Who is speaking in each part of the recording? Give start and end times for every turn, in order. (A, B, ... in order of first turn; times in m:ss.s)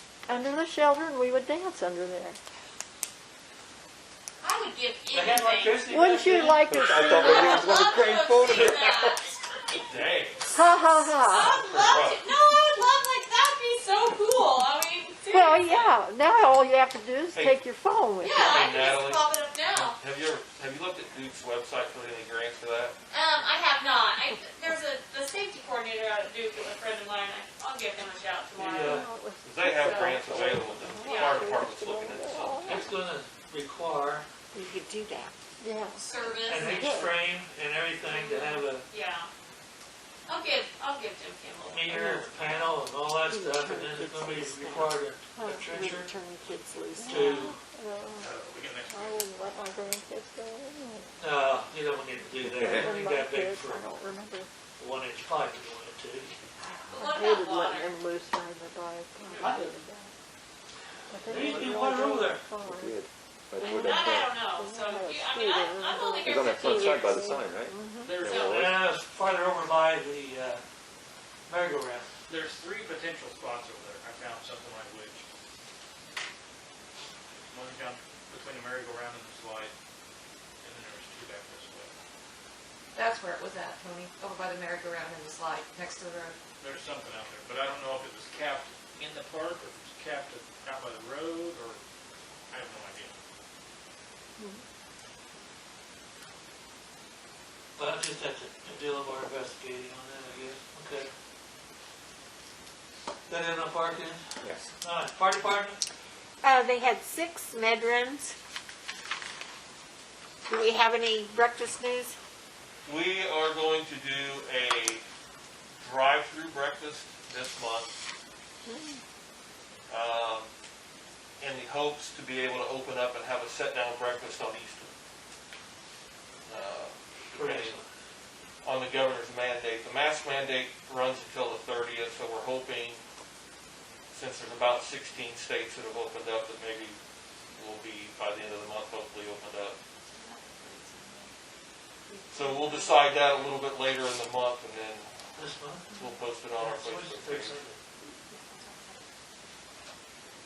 0:00.3-0:02.4 A
0:04.4-0:06.0 B
0:05.1-0:06.6 C
0:05.9-0:07.7 A
0:06.7-0:09.1 D
0:06.9-0:09.8 B
0:09.8-0:10.6 E
0:10.5-0:11.7 A
0:11.0-0:15.9 B
0:11.7-0:12.2 E
0:15.3-0:18.6 A
0:18.2-0:20.0 B
0:18.4-0:23.0 E
0:23.1-0:29.1 B
0:28.5-0:29.0 C
0:28.8-0:32.9 A
0:29.4-0:32.7 E
0:29.7-0:31.4 B
0:32.6-0:34.2 C
0:34.5-0:35.3 F
0:35.6-0:37.1 A
0:36.0-0:37.1 B
0:36.4-0:38.8 C
0:38.1-0:39.3 B
0:40.3-0:42.6 B
0:41.7-0:46.1 C
0:43.3-0:48.3 A
0:47.1-0:47.6 C
0:48.2-0:49.9 G
0:48.9-0:51.1 A
0:51.2-0:53.8 C
0:52.7-0:54.5 A
0:54.8-0:56.4 C
0:56.8-0:58.0 B
0:56.9-1:00.1 A
0:59.4-0:59.8 C
1:01.1-1:03.0 A
1:01.2-1:02.4 C
1:02.6-1:04.3 D
1:03.6-1:08.3 A
1:03.6-1:07.4 B
1:06.2-1:08.8 D
1:08.0-1:08.6 G
1:08.3-1:08.6 B
1:08.4-1:10.6 C
1:11.5-1:12.1 C
1:12.3-1:15.2 G
1:17.5-1:19.7 G
1:20.6-1:21.9 G
1:22.9-1:26.4 H
1:26.6-1:31.8 G
1:32.5-1:33.2 G
1:37.8-1:41.1 C
1:43.3-1:44.2 C
1:44.4-1:44.7 D
1:44.8-1:45.8 C
1:46.4-1:48.3 F
1:50.5-1:52.1 F
1:52.8-1:55.0 E
1:55.8-1:57.9 E
1:59.9-2:00.5 E
2:01.4-2:04.9 E
2:06.4-2:07.7 E
2:07.3-2:07.8 C
2:08.6-2:13.0 E
2:14.1-2:17.0 E
2:17.5-2:19.8 E
2:20.1-2:21.3 B
2:22.1-2:23.6 B
2:22.3-2:25.1 E
2:25.4-2:26.0 C
2:25.9-2:27.6 E
2:26.5-2:27.8 C
2:28.3-2:29.0 B